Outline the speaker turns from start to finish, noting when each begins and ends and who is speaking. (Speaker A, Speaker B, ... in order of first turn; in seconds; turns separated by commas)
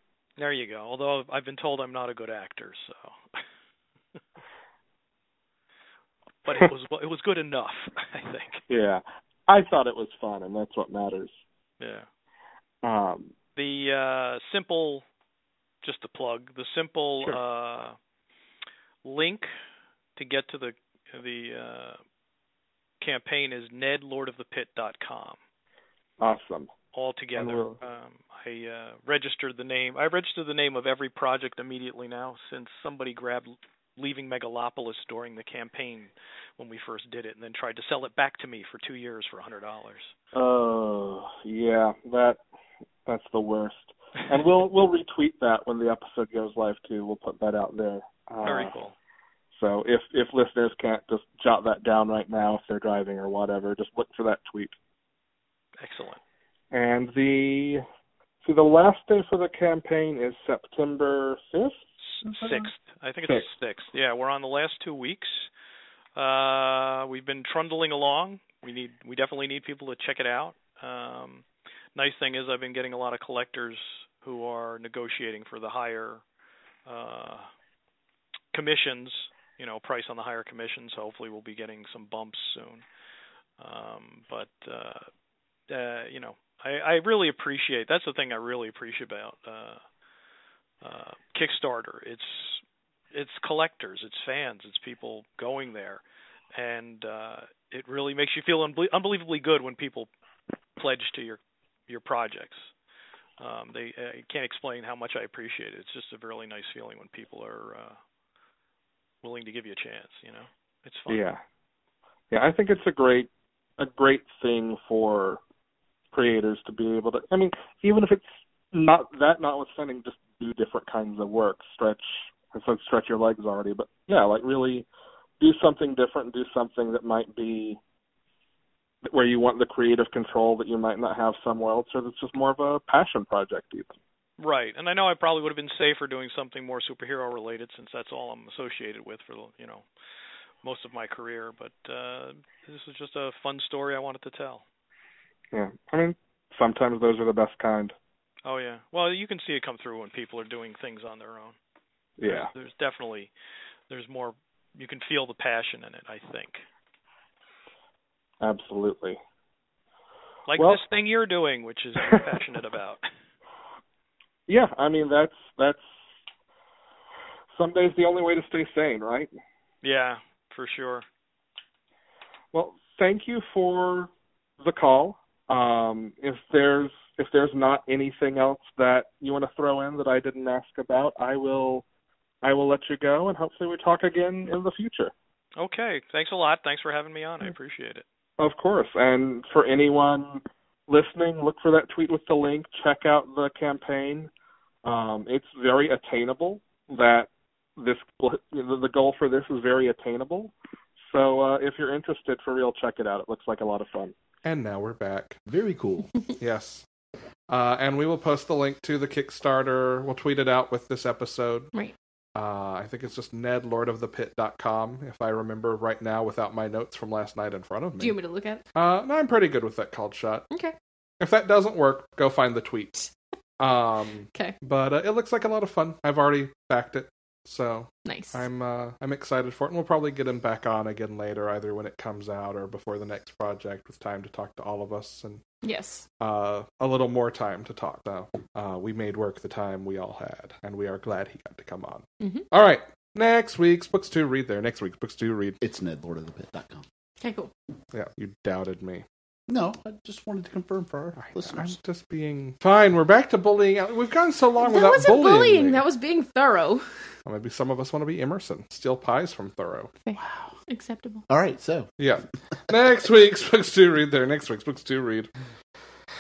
Speaker A: 0.4-3.4, Speaker A: 6.5-8.6, Speaker B: 8.7-11.3, Speaker A: 11.8-12.1, Speaker B: 12.8-13.3, Speaker A: 13.6-15.1, Speaker A: 15.8-18.0, Speaker A: 19.0-19.5, Speaker A: 20.2-22.0, Speaker A: 23.0-25.4, Speaker B: 26.2-26.7, Speaker A: 26.9-40.1, Speaker B: 27.4-27.8, Speaker B: 40.3-42.4, Speaker B: 43.1-48.8, Speaker A: 48.4-49.0, Speaker B: 49.5-54.7, Speaker A: 55.8-56.2, Speaker B: 56.7-57.8, Speaker B: 58.4-62.7, Speaker A: 62.1-65.5, Speaker A: 66.2-76.2, Speaker A: 76.9-77.5, Speaker A: 78.5-82.8, Speaker A: 83.6-85.1, Speaker A: 85.7-89.8, Speaker A: 90.8-96.0, Speaker A: 96.5-100.1, Speaker A: 100.8-102.6, Speaker A: 103.4-108.0, Speaker A: 109.2-111.2, Speaker B: 111.1-111.4, Speaker B: 112.3-115.4, Speaker B: 116.1-124.9, Speaker B: 125.4-127.8, Speaker B: 129.1-133.9, Speaker A: 134.4-139.9, Speaker A: 140.6-144.6, Speaker B: 145.5-147.9, Speaker A: 148.4-151.6, Speaker B: 152.2-152.5, Speaker A: 152.2-153.3, Speaker A: 153.9-156.6, Speaker B: 158.4-159.2, Speaker A: 160.5-163.1, Speaker B: 160.6-160.8, Speaker B: 164.5-165.8, Speaker B: 167.6-169.3, Speaker A: 169.8-171.1, Speaker B: 172.5-174.1, Speaker B: 174.6-181.8, Speaker B: 182.4-185.1, Speaker A: 185.6-188.0, Speaker B: 188.4-194.3, Speaker B: 194.8-204.1, Speaker C: 204.4-205.4, Speaker D: 205.5-206.1, Speaker C: 206.4-206.8, Speaker C: 207.5-211.7, Speaker C: 212.3-218.2, Speaker E: 218.0-218.6, Speaker C: 218.8-220.5, Speaker C: 221.2-222.9, Speaker C: 223.6-235.4, Speaker E: 228.1-228.4, Speaker E: 235.6-236.1, Speaker C: 236.2-245.6, Speaker E: 242.2-242.4, Speaker D: 245.6-246.8, Speaker E: 247.2-247.5, Speaker C: 247.9-249.1, Speaker D: 249.5-251.8, Speaker C: 251.2-255.8, Speaker E: 254.6-256.9, Speaker C: 257.3-259.9, Speaker E: 260.0-261.2, Speaker D: 260.2-260.5, Speaker D: 261.3-261.9, Speaker C: 262.0-265.3